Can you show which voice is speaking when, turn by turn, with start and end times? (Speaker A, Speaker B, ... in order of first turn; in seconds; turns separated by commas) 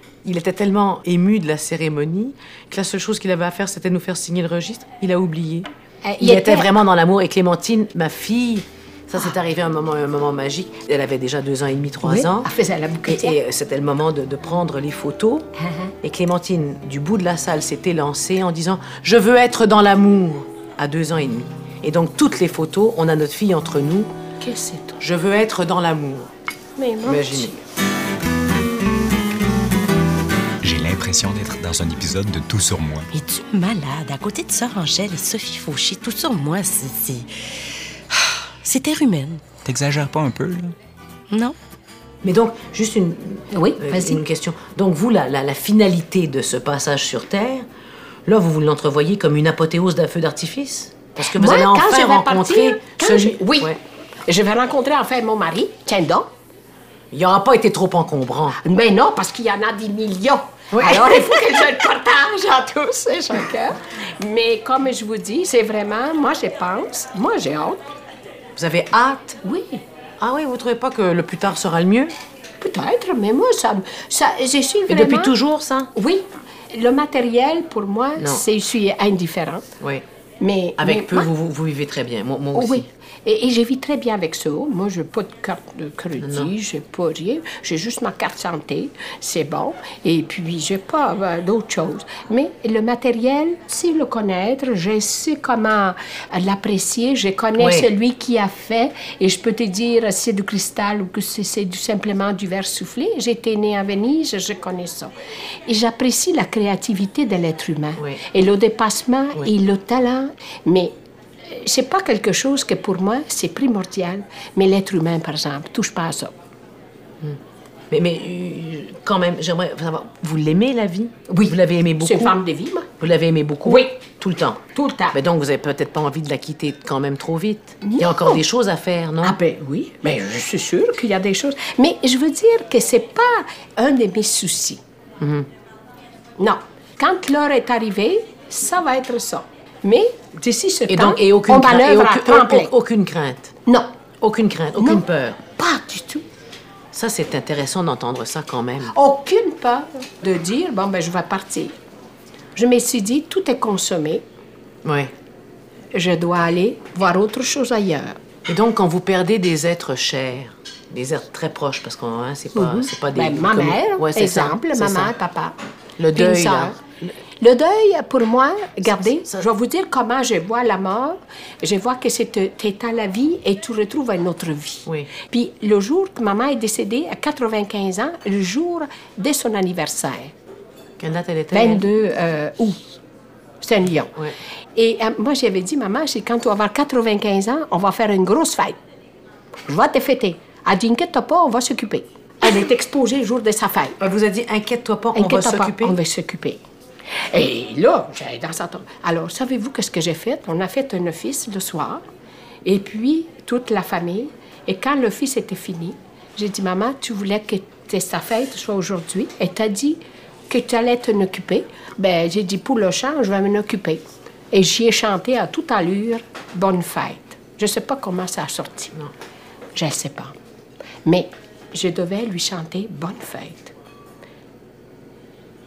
Speaker A: 0.2-5.7, Speaker B: 6.0-6.8, Speaker A: 6.2-12.5, Speaker B: 12.0-13.4, Speaker A: 13.1-15.5, Speaker B: 15.6-15.9, Speaker A: 16.0-24.1, Speaker B: 24.4-25.0, Speaker A: 25.0-26.3, Speaker B: 26.8-27.6, Speaker A: 27.0-27.5, Speaker C: 30.6-33.1, Speaker D: 33.1-37.3, Speaker D: 38.1-39.5, Speaker C: 39.6-40.7, Speaker D: 41.3-41.5, Speaker A: 42.2-47.6, Speaker B: 43.5-44.2, Speaker A: 48.3-53.8, Speaker B: 51.3-56.3, Speaker A: 57.1-58.6, Speaker B: 58.6-67.8, Speaker A: 60.7-61.4, Speaker A: 68.6-69.4, Speaker B: 69.4-69.8, Speaker A: 70.2-72.1, Speaker B: 72.6-75.3, Speaker A: 74.9-75.9, Speaker B: 75.9-79.7, Speaker A: 78.2-78.4, Speaker A: 79.8-80.0, Speaker B: 80.4-81.3, Speaker A: 80.8-82.9, Speaker B: 82.5-105.1, Speaker A: 86.2-86.5, Speaker A: 97.6-97.9, Speaker B: 105.7-110.9, Speaker B: 111.5-116.3, Speaker A: 117.9-122.4, Speaker B: 121.3-122.9, Speaker A: 123.0-124.6, Speaker B: 123.6-124.0, Speaker B: 124.7-125.2, Speaker A: 125.1-129.4, Speaker B: 127.8-128.4, Speaker B: 129.2-134.8, Speaker A: 135.2-135.5, Speaker B: 136.4-142.7, Speaker A: 140.9-143.6, Speaker A: 144.2-145.4, Speaker B: 144.8-145.1, Speaker B: 145.6-146.3, Speaker A: 146.9-148.9, Speaker B: 148.9-151.8, Speaker B: 152.6-154.2, Speaker A: 154.8-155.1, Speaker B: 155.9-158.2, Speaker A: 158.5-165.1, Speaker B: 162.5-165.6, Speaker A: 166.0-167.2, Speaker B: 166.1-166.8, Speaker B: 167.4-180.3, Speaker A: 181.0-181.8, Speaker B: 181.5-182.8, Speaker B: 183.6-184.1, Speaker B: 184.8-188.8, Speaker B: 189.7-194.0, Speaker A: 194.0-196.0, Speaker B: 195.2-196.6, Speaker B: 197.2-202.0, Speaker B: 202.7-218.9, Speaker B: 219.8-220.3, Speaker B: 221.1-223.7